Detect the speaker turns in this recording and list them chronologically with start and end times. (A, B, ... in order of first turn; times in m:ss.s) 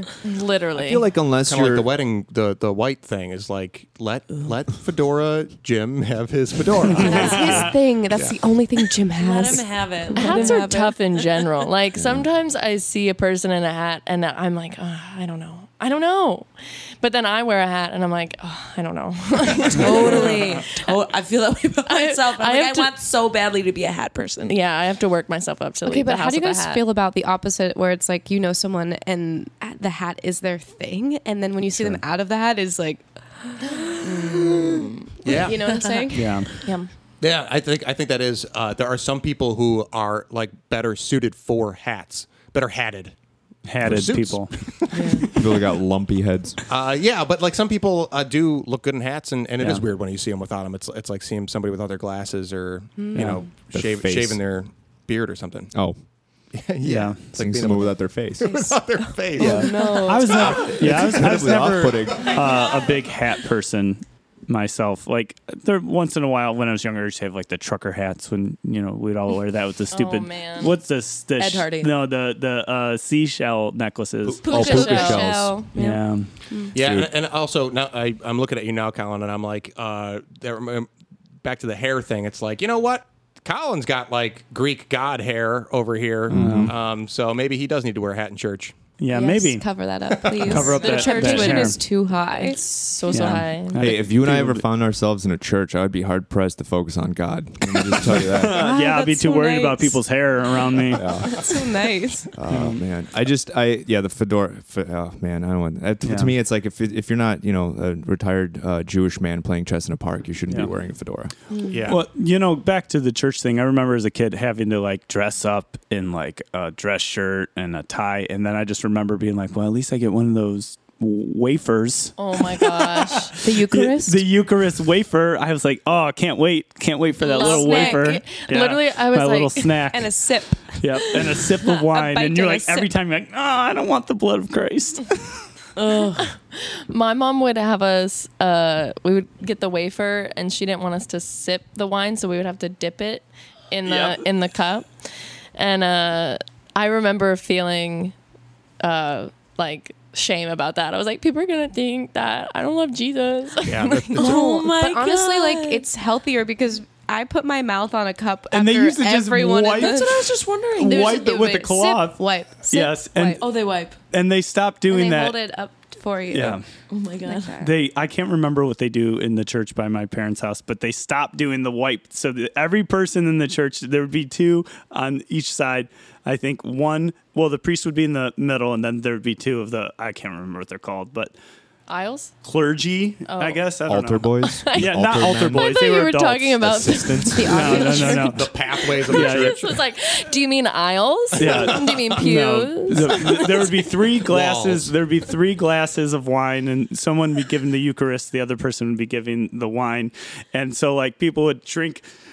0:00.2-0:01.0 A
0:00.8-0:01.9 B
0:01.4-0:08.4 C
0:07.0-0:11.0 D
0:07.0-0:07.3 A
0:07.0-0:07.6 E
0:09.2-0:10.8 E
0:10.2-0:21.0 A
0:19.8-0:24.6 E
0:21.9-0:22.9 A
0:24.5-0:26.9 A
0:25.8-0:36.4 D
0:31.7-0:32.0 B
0:34.0-0:35.1 E
0:35.2-0:35.7 C
0:36.1-0:36.5 F
0:36.6-0:36.9 A
0:37.2-0:43.1 C
0:43.6-0:44.5 F
0:43.8-0:45.4 C
0:44.9-0:45.3 E
0:45.3-0:46.6 B
0:46.7-0:55.7 C
0:49.6-0:49.8 F
0:53.0-0:53.4 D
0:53.2-0:53.4 F
0:53.7-0:54.4 B
0:56.5-1:01.5 C
0:56.8-0:57.2 F
0:57.3-0:58.6 B
0:58.5-0:58.7 D
0:59.4-1:00.6 D
0:59.4-1:15.0 F
0:59.7-1:00.1 E
1:00.4-1:02.5 B
1:09.9-1:10.7 A
1:11.4-1:11.9 E
1:14.2-1:15.7 B
1:14.5-1:16.7 D
1:14.5-1:15.3 A
1:15.7-1:16.0 E
1:15.8-1:16.3 F
1:16.7-1:17.1 B
1:16.7-1:20.9 C
1:21.4-1:28.8 C
1:26.3-1:26.8 B
1:26.3-1:26.7 F
1:29.0-1:29.7 F
1:29.1-1:33.4 D
1:30.1-1:30.8 C
1:30.4-1:31.8 F
1:30.7-1:33.9 A
1:33.1-1:34.6 F
1:33.8-1:38.7 B
1:37.9-1:41.2 F
1:38.5-1:40.0 D
1:40.9-1:41.4 B
1:41.0-1:42.3 D
1:42.4-1:51.3 B
1:42.5-1:42.8 F
1:46.0-1:46.3 F
1:51.5-1:51.8 D
1:51.7-1:52.0 C
1:51.9-2:15.3 F
2:02.2-2:03.3 A
2:03.4-2:04.2 D
2:07.2-2:09.7 A
2:07.3-2:08.2 D
2:09.9-2:12.9 D
2:15.8-2:16.3 E
2:16.2-2:24.9 A
2:23.9-2:24.2 F
2:25.6-2:28.2 A
2:28.8-2:34.4 A
2:33.6-2:34.5 C
2:34.2-2:35.9 E
2:34.2-2:40.3 D
2:38.5-2:40.2 F
2:39.8-2:41.2 E
2:40.8-2:43.5 F
2:40.9-2:43.6 D
2:43.4-2:44.0 E
2:44.1-2:45.4 F
2:44.9-2:46.6 D
2:46.3-2:46.6 F
2:46.9-2:47.6 E
2:47.2-2:47.7 D
2:47.6-3:01.4 F
3:01.9-3:02.3 A
3:02.4-3:06.7 F
3:03.3-3:03.6 A
3:03.9-3:05.8 B
3:04.4-3:13.7 A
3:06.6-3:07.5 B
3:07.4-3:08.4 D
3:07.5-3:08.5 F
3:08.2-3:09.8 C
3:09.0-3:09.7 F
3:11.4-3:22.0 F
3:11.4-3:12.1 C
3:14.2-3:14.9 C